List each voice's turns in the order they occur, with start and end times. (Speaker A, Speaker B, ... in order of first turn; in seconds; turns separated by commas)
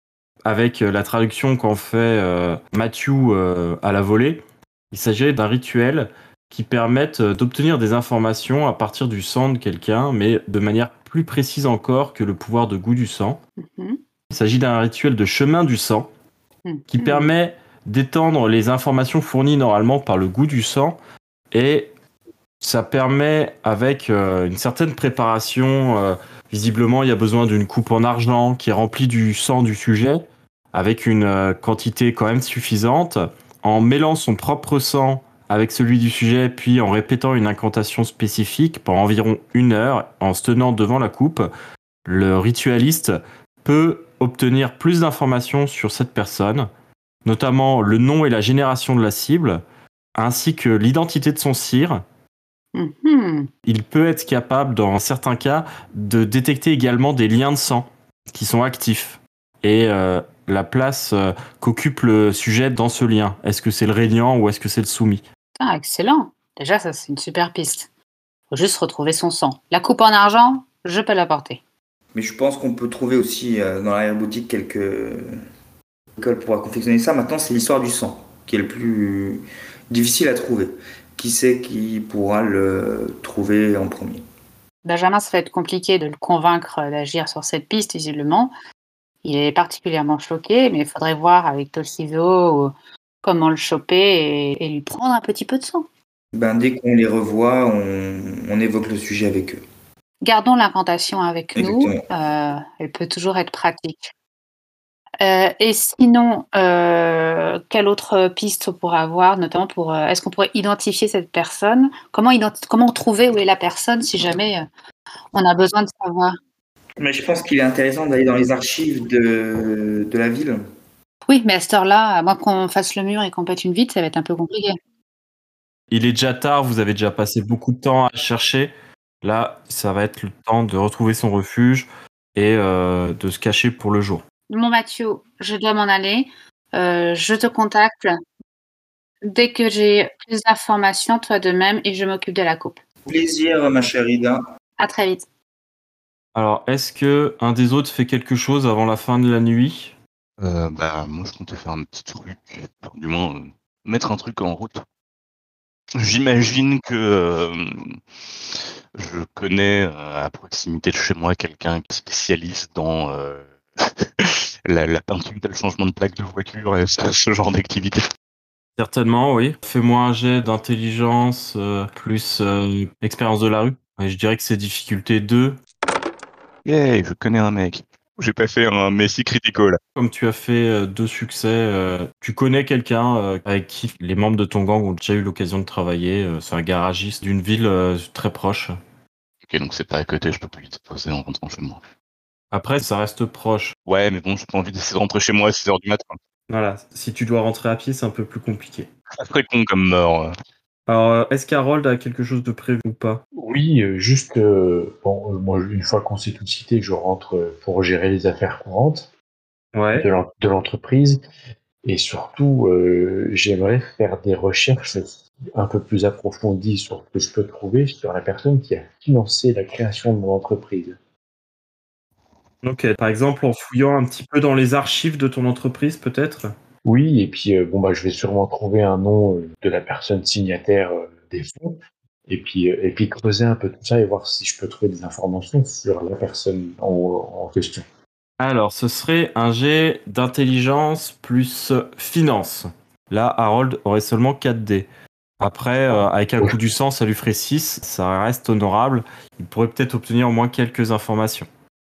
Speaker A: 0.4-13.4, Speaker B: 13.6-14.0, Speaker A: 14.3-16.1, Speaker B: 16.6-17.3, Speaker A: 16.9-21.0, Speaker A: 21.5-21.9, Speaker A: 22.6-41.5, Speaker A: 42.0-46.7, Speaker A: 47.2-49.6, Speaker A: 50.1-52.0, Speaker B: 52.7-53.5, Speaker A: 53.6-65.2, Speaker B: 65.6-67.9, Speaker B: 68.5-71.6, Speaker C: 72.1-75.4, Speaker C: 76.2-84.2, Speaker B: 84.8-88.5, Speaker B: 89.2-95.9, Speaker C: 96.3-99.6, Speaker B: 100.2-104.1, Speaker C: 101.5-102.0, Speaker B: 105.2-114.7, Speaker B: 115.3-116.4, Speaker C: 117.0-120.6, Speaker B: 121.2-124.8, Speaker A: 125.9-134.2, Speaker B: 134.5-138.1, Speaker B: 139.2-142.8, Speaker C: 143.1-144.4, Speaker B: 144.8-145.3, Speaker A: 146.3-149.9, Speaker D: 150.4-154.8, Speaker D: 156.0-158.0, Speaker D: 158.5-168.1, Speaker A: 168.8-175.6, Speaker D: 176.6-179.8, Speaker A: 179.9-188.8, Speaker D: 189.4-191.8, Speaker A: 192.5-193.7, Speaker D: 193.9-196.2, Speaker A: 196.5-198.9, Speaker D: 199.2-200.3, Speaker A: 200.9-203.2, Speaker E: 203.3-209.1, Speaker A: 209.7-210.1, Speaker E: 209.9-211.2, Speaker E: 211.8-221.0, Speaker A: 222.6-226.5, Speaker E: 226.8-237.8, Speaker A: 238.4-244.9, Speaker A: 245.4-251.5